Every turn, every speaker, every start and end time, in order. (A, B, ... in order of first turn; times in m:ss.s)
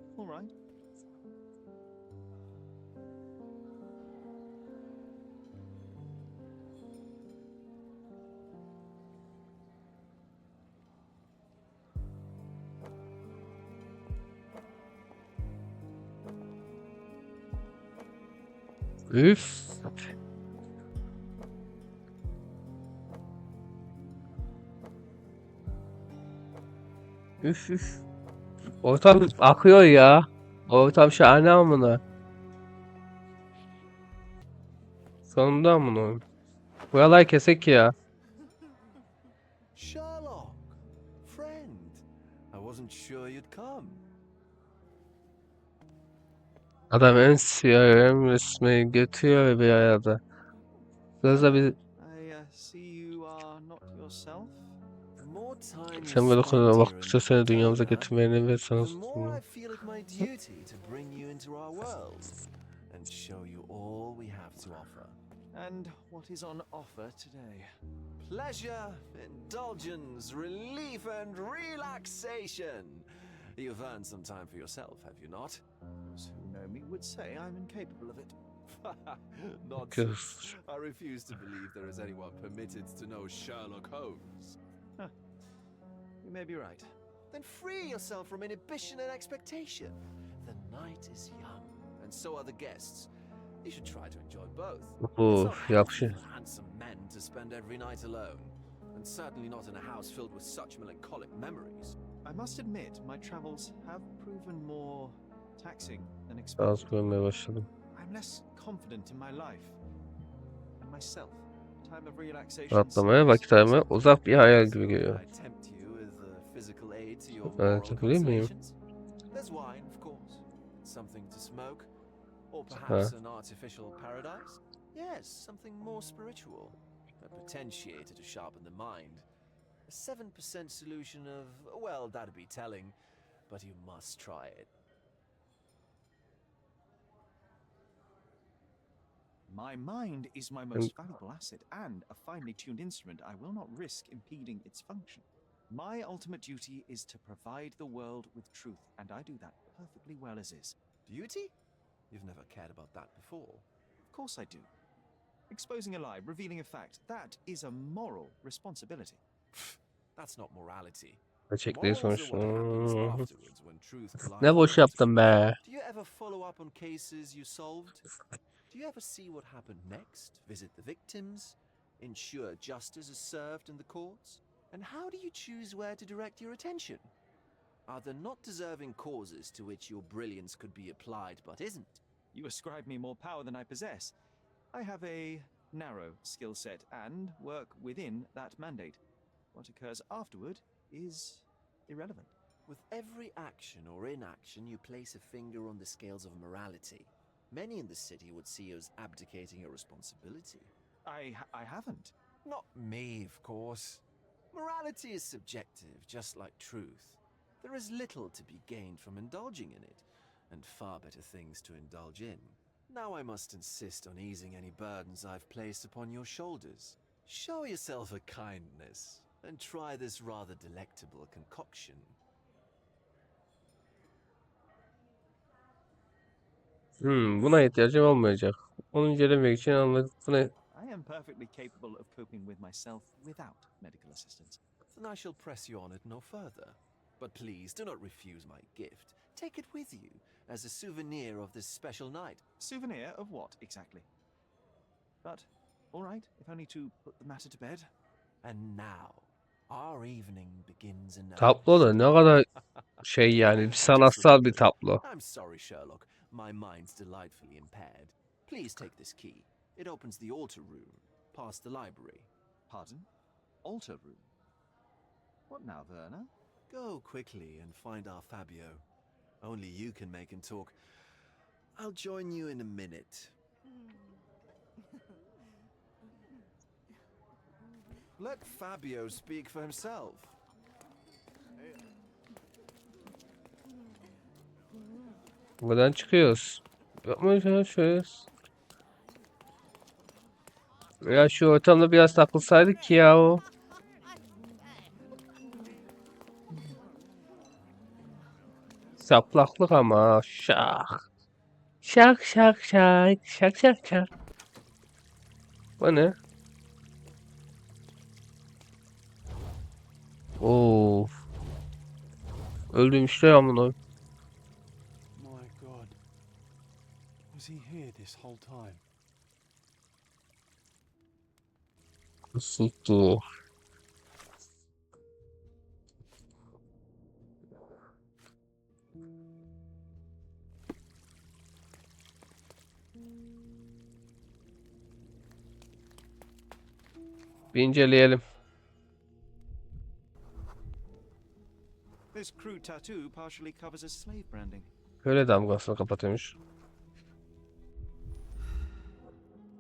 0:00.2-0:00.5 A
0:19.1-0:20.0 B
0:27.4-0:28.0 B
0:28.8-0:32.0 B
0:35.3-0:36.2 B
0:36.9-0:38.0 B
0:39.8-0:44.0 C
0:46.9-0:50.2 B
0:51.2-0:51.8 B
0:51.2-0:54.8 A
0:55.2-0:58.1 C
0:56.0-0:59.4 B
0:58.8-1:02.4 C
1:02.9-1:05.2 C
1:05.5-1:07.7 A
1:08.2-1:15.6 C
1:16.2-1:18.4 A
1:18.7-1:24.6 C
1:19.9-1:20.5 B
1:26.2-1:26.9 A
1:27.3-1:33.1 C
1:33.6-1:42.0 C
1:35.0-1:36.2 B
1:42.2-1:47.0 A
1:46.6-1:47.7 B
1:48.0-1:49.8 A
1:50.8-1:53.8 A
1:52.7-1:55.2 B
1:53.7-1:58.8 C
1:57.6-1:58.5 B
1:59.3-2:01.9 C
2:02.5-2:09.3 C
2:02.7-2:03.1 B
2:09.9-2:13.0 C
2:13.5-2:14.7 C
2:19.5-2:30.8 A
2:31.1-2:31.5 C
2:32.1-2:33.7 C
2:34.1-2:34.7 A
2:35.5-2:39.2 A
2:40.2-2:45.1 C
2:41.5-2:43.2 B
2:44.4-2:45.6 B
2:45.6-2:48.1 C
2:48.7-2:57.1 C
2:57.9-3:02.0 C
3:02.3-3:04.2 A
3:04.7-3:09.0 A
3:09.5-3:12.3 A
3:12.7-3:20.7 C
3:21.1-3:22.1 A
3:22.4-3:42.2 C
3:47.0-3:50.5 B
3:50.7-3:54.6 A
3:54.9-4:02.4 C
4:02.6-4:04.1 A
4:05.2-4:07.9 A
4:08.4-4:12.1 C
4:11.4-4:12.4 B
4:13.0-4:15.0 B
4:13.4-4:22.3 C
4:22.7-4:23.1 A
4:23.6-4:24.3 A
4:25.5-4:26.3 A
4:26.7-4:28.8 C
4:29.4-4:30.8 C
4:31.8-4:33.4 C
4:38.2-4:40.4 C
4:45.6-4:48.3 B
4:51.0-4:53.4 B
4:59.0-5:01.0 B
5:01.8-5:04.1 B
5:05.8-5:06.2 B
5:10.4-5:11.1 B
5:12.7-5:13.8 B
5:15.2-5:16.0 D
5:17.3-5:18.8 D
5:22.4-5:23.2 B
5:37.5-5:38.2 B
5:42.1-5:44.7 A
5:45.0-5:46.4 B